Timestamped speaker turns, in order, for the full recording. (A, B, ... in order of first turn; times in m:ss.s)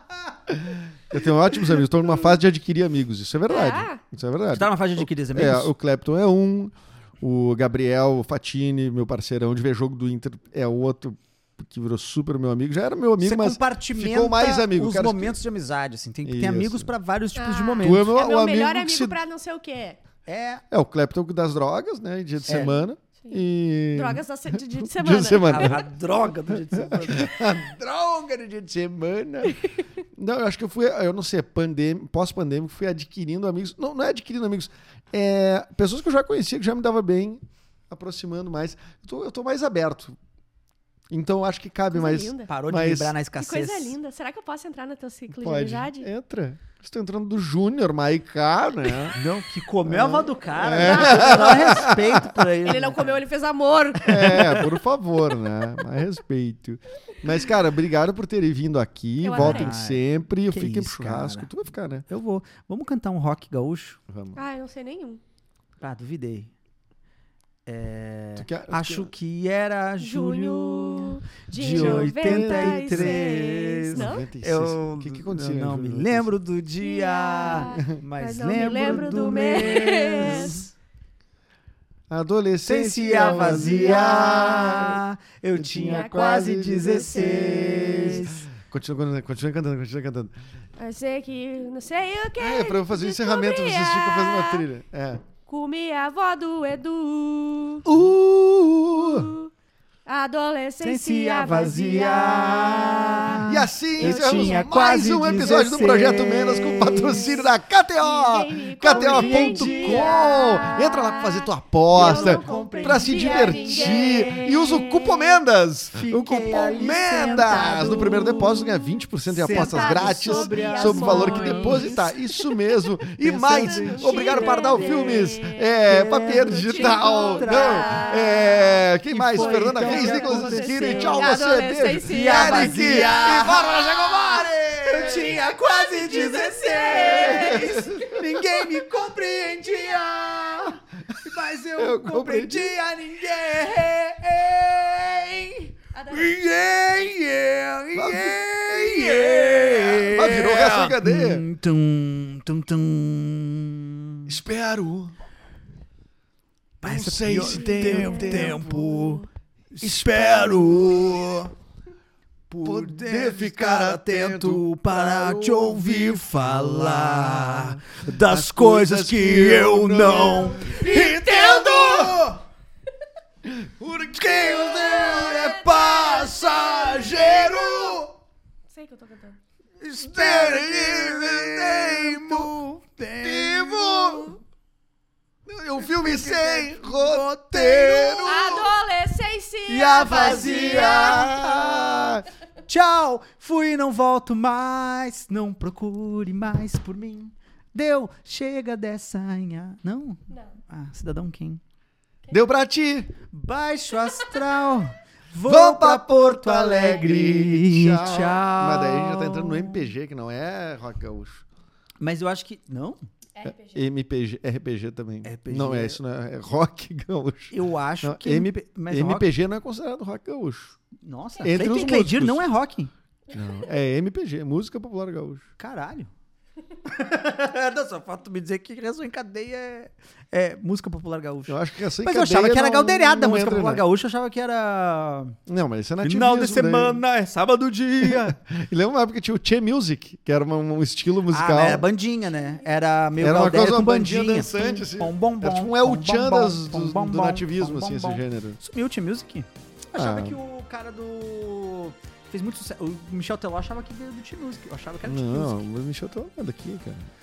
0:00.5-0:15.4 A
0:03.5-0:04.0 B
0:04.5-0:05.7 C
0:13.2-0:18.1 C
0:16.2-0:16.9 A
0:17.3-0:20.0 B
0:17.8-0:19.1 A
0:20.3-0:20.6 C
0:20.7-0:25.8 A
0:22.4-0:22.8 C
0:23.9-0:25.8 B
0:25.4-0:27.6 C
0:26.5-0:40.2 A
0:41.1-0:43.1 A
0:41.9-0:42.5 B
0:42.5-0:44.0 C
0:43.4-0:46.1 B
0:45.3-0:49.2 A
0:49.1-0:53.2 C
0:49.8-0:52.3 A
0:50.8-0:51.9 B
0:52.6-0:54.4 B
0:54.0-0:54.7 C
0:54.0-1:02.0 A
0:59.2-0:59.7 B
0:59.3-1:01.5 C
1:02.1-1:04.0 C
1:04.1-1:04.4 A
1:04.3-1:05.2 B
1:05.8-1:06.5 C
1:07.6-1:20.7 C
1:08.4-1:09.1 A
1:10.0-1:14.2 B
1:11.5-1:13.2 A
1:13.9-1:16.3 A
1:16.8-1:20.6 B
1:22.1-1:25.0 A
1:22.6-1:28.5 C
1:23.2-1:24.2 B
1:25.6-1:30.3 A
1:25.9-1:26.4 B
1:30.8-1:34.6 B
1:32.4-1:35.2 A
1:35.4-1:37.8 B
1:37.8-1:39.3 A
1:39.0-1:39.5 B
1:40.0-1:43.3 B
1:40.8-1:47.5 C
1:43.4-2:15.3 A
1:44.0-1:45.7 B
1:48.0-1:54.5 B
1:48.9-1:50.2 C
1:51.9-1:55.2 C
1:55.9-1:58.8 C
1:57.3-1:58.4 B
1:59.3-2:02.0 C
1:59.4-2:02.6 B
2:03.2-2:11.3 C
2:03.5-2:05.6 B
2:06.4-2:08.7 B
2:09.4-2:13.5 B
2:12.0-2:34.4 C
2:14.9-2:20.1 B
2:16.9-2:18.2 A
2:21.8-2:22.7 A
2:25.9-2:26.4 B
2:27.9-2:31.4 A
2:34.3-2:35.1 A
2:36.8-2:39.2 A
2:36.8-2:41.5 C
2:37.5-2:39.2 B
2:39.8-2:41.5 A
2:42.5-2:52.4 C
2:42.6-2:51.1 A
2:50.6-2:52.2 B
2:51.8-2:52.2 A
2:53.4-2:55.1 A
2:54.1-2:58.1 C
2:54.7-2:58.0 B
2:57.3-2:57.7 A
2:58.7-2:59.4 B
2:59.8-3:04.4 C
3:00.0-3:02.6 A
3:03.2-3:04.4 A
3:05.4-3:08.7 A
3:05.9-3:08.5 C
3:08.2-3:11.3 B
3:09.7-3:21.6 C
3:10.0-3:12.2 A
3:22.3-3:23.1 A
3:23.3-3:29.9 C
3:25.4-3:31.4 A
3:32.0-3:33.0 C
3:33.4-3:33.9 B
3:33.4-3:40.8 A
3:35.2-3:36.0 C
3:37.5-3:39.2 C
3:41.0-3:42.9 C
3:41.4-3:42.4 A
3:43.3-3:45.4 A
3:45.6-3:46.1 C
3:46.8-3:55.4 C
3:51.5-3:53.8 A
3:55.5-3:57.0 A
3:56.0-3:58.4 C
3:58.0-4:01.9 A
4:01.3-4:15.6 C
4:03.2-4:08.6 A
4:09.9-4:10.4 A
4:15.0-4:17.1 A